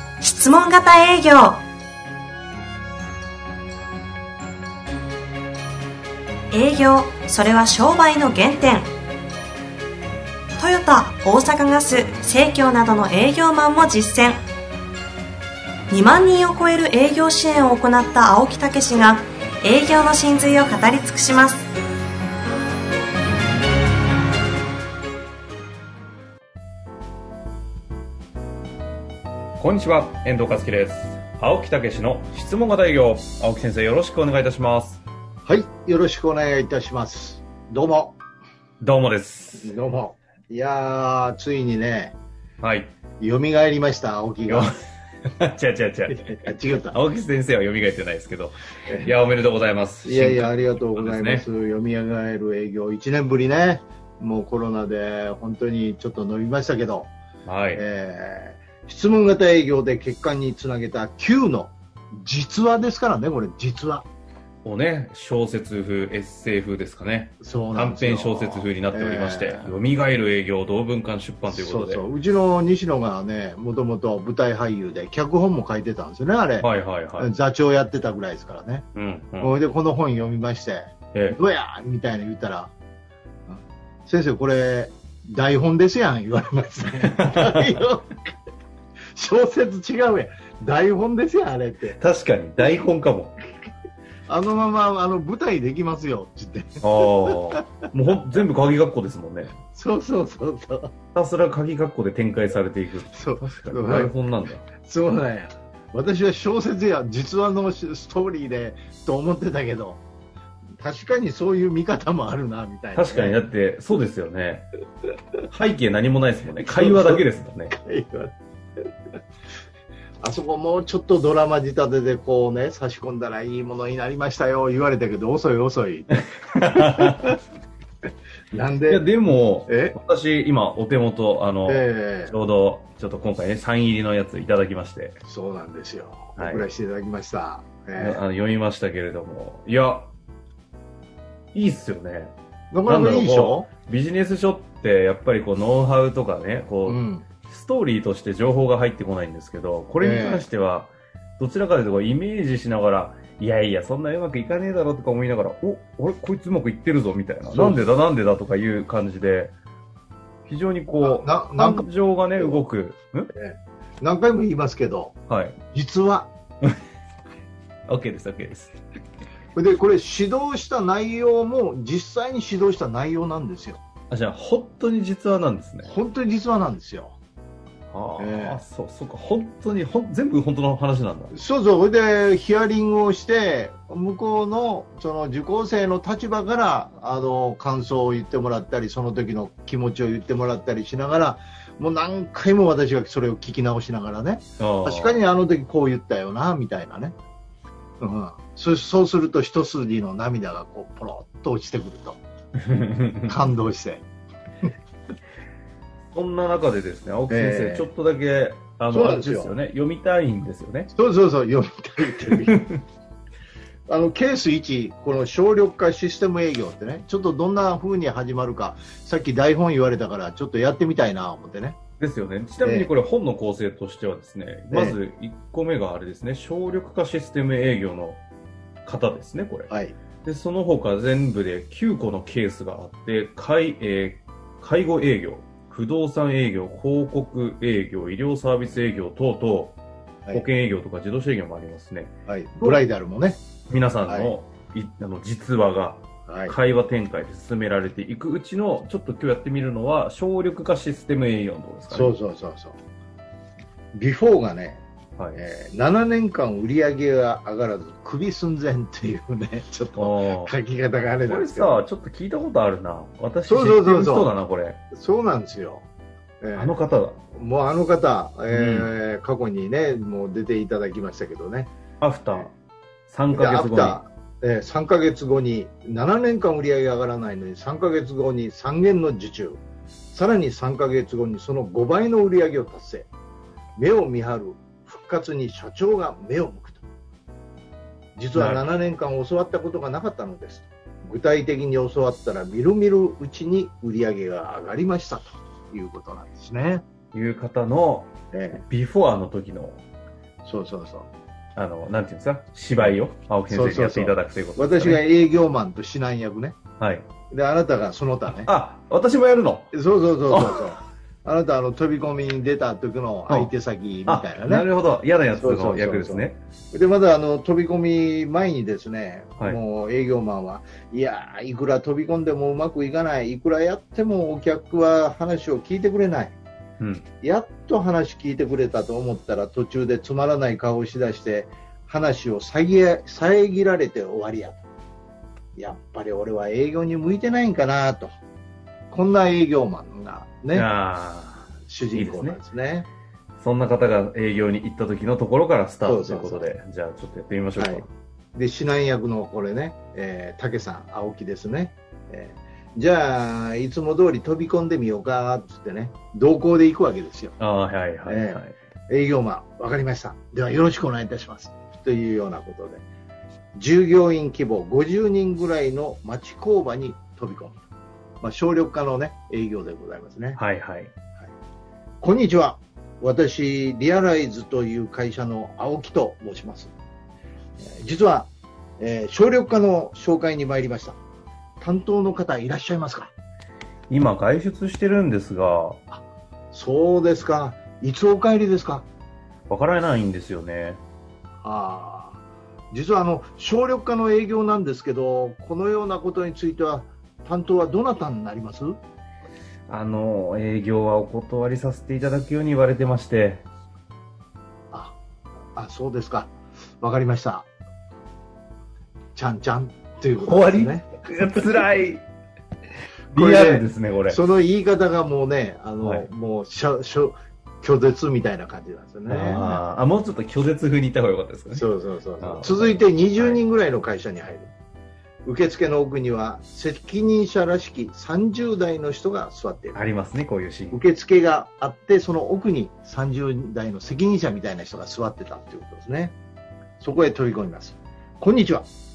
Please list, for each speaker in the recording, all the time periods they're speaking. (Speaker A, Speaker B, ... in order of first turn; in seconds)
Speaker A: 0.2-1.6, 6.5-8.9, 10.6-14.4, 15.9-21.7
Speaker B: 29.6-35.0, 38.8-39.7, 42.6-42.9, 44.5-44.8, 45.4-51.5, 57.5-57.9, 64.6-72.1, 76.6-77.3, 79.0-79.6, 81.1-81.4, 87.2-87.8, 92.0-93.4, 96.8-99.6, 101.1-104.7, 113.0-114.7, 115.5-117.8, 126.3-127.4, 128.9-135.2, 136.4-136.7, 138.0-140.1, 141.5-142.3, 142.9-159.6, 160.5-163.3, 165.3-165.6, 167.9-168.7, 174.1-175.9, 177.9-181.3, 194.6-195.2, 202.7-203.3, 206.1-210.9, 212.5-212.8, 222.0-228.2, 228.9-229.7, 230.2-239.8, 240.3-242.8, 243.7-252.1, 260.0-260.5, 261.3-264.8, 266.6-267.2, 268.5-268.9, 272.0-272.5, 273.1-274.0, 288.3-288.7, 297.1-299.8, 301.6-305.0, 306.8-307.1, 308.4-309.7, 310.3-310.8, 314.1-316.4, 326.8-327.1, 340.5-342.4, 343.4-347.9, 357.4-358.5, 370.4-370.9, 383.9-385.8, 389.5-390.8, 399.7-403.4, 410.2-412.0, 413.1-414.2, 415.8-416.1, 419.1-421.6, 422.2-423.4, 429.8-430.8
Speaker C: 35.5-38.2, 39.6-42.2, 43.2-44.8, 46.1-47.0, 48.9-49.1, 50.0-57.1, 57.8-64.1, 67.4-69.8, 71.5-78.9, 79.4-82.7, 83.5-88.3, 89.1-92.0, 94.3-97.7, 99.7-100.9, 103.1-104.2, 104.8-110.0, 110.8-113.4, 116.6-118.3, 120.2-127.4, 128.5-129.1, 129.7-130.0, 131.7-132.4, 135.3-138.2, 142.7-143.7, 146.8-147.3, 150.0-150.5, 157.5-157.8, 161.0-162.6, 163.3-165.1, 165.7-166.3, 169.6-173.8, 175.8-177.2, 178.2-178.6, 181.3-197.2, 198.0-202.2, 203.2-204.0, 207.3-207.9, 208.9-209.5, 210.9-212.7, 213.9-221.8, 222.6-222.9, 224.7-225.0, 229.7-230.0, 242.3-243.4, 244.1-244.3, 246.3-246.6, 251.9-252.8, 253.9-254.8, 255.3-261.8, 263.5-264.3, 264.9-265.9, 266.4-266.8, 267.3-271.7, 273.3-279.6, 280.1-283.1, 283.8-286.8, 288.2-296.8, 298.3-298.6, 300.4-301.1, 303.5-306.6, 307.3-308.5, 309.7-314.7, 315.3-326.4, 327.2-334.6, 335.6-338.1, 338.9-340.7, 341.6-342.9, 345.9-346.5, 347.6-357.4, 358.1-362.8, 363.6-367.6, 368.2-370.4, 372.0-376.7, 377.6-381.0, 381.6-383.1, 386.5-388.9, 391.4-392.2, 392.7-398.8, 405.6-407.5, 409.1-410.9, 413.1-419.6, 421.5-424.5, 425.2-429.8, 430.7-436.1, 436.8-438.7